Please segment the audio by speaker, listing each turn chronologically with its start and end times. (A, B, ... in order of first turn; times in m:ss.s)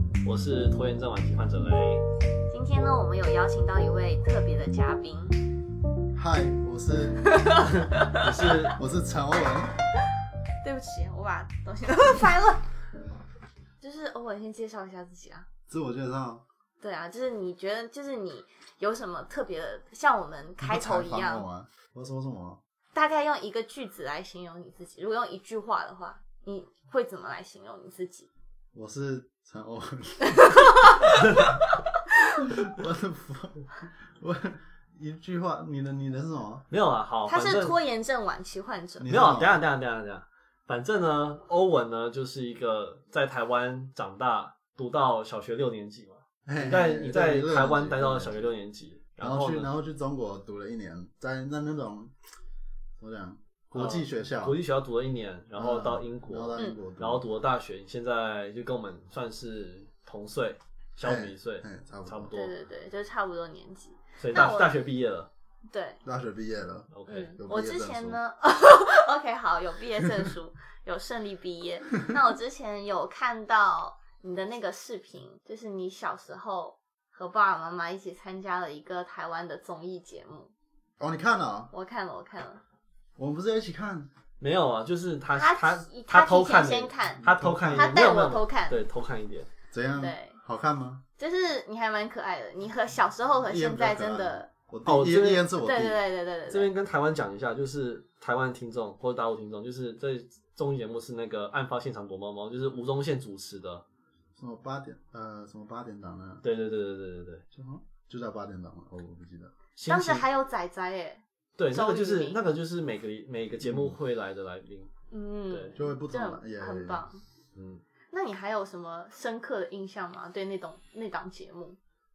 0:00.2-0:02.0 A
0:02.5-0:05.4 B
0:06.2-0:07.4 C
0:07.2-0:08.5 B
0:08.1-0:08.8 A
0:08.8-0:09.8 C
0:10.6-0:12.6 B
0:13.8-0:15.5 B
0:15.7-0:16.4 C
0:16.8-0:21.5 B
0:20.6-0:22.6 C
0:22.9-0:28.3 B
0:28.7-0:31.2 C
0:30.3-0:32.4 B
0:32.4-0:36.7 C
0:36.7-0:37.8 A
0:37.3-0:39.1 B
0:39.0-0:39.6 C
0:39.1-0:49.7 A
0:46.5-0:48.5 C
0:49.2-0:52.1 C
0:53.0-0:54.6 C
0:53.8-1:02.5 A
0:55.6-0:57.2 C
1:01.0-1:02.4 C
1:02.3-1:04.8 B
1:04.2-1:05.3 A
1:05.7-1:06.0 B
1:06.0-1:08.2 C
1:06.9-1:07.3 A
1:07.1-1:20.5 B
1:21.0-1:21.7 C
1:21.7-1:22.6 B
1:23.2-1:24.1 C
1:24.4-1:29.5 A
1:25.4-1:28.8 B
1:27.2-1:28.1 C
1:29.7-1:31.0 C
1:30.0-1:30.4 B
1:31.2-1:34.5 B
1:33.4-1:36.0 C
1:34.9-1:35.4 A
1:35.6-1:36.7 B
1:36.5-1:43.8 A
1:44.4-1:46.4 C
1:46.4-1:47.4 A
1:47.5-1:49.5 C
1:49.8-1:50.2 A
1:49.9-1:52.4 B
1:51.6-1:54.9 A
1:53.6-1:54.0 C
1:55.1-1:57.2 B
1:55.5-1:55.8 A
1:55.8-1:57.0 C
1:57.6-1:57.8 A
1:58.1-2:01.8 B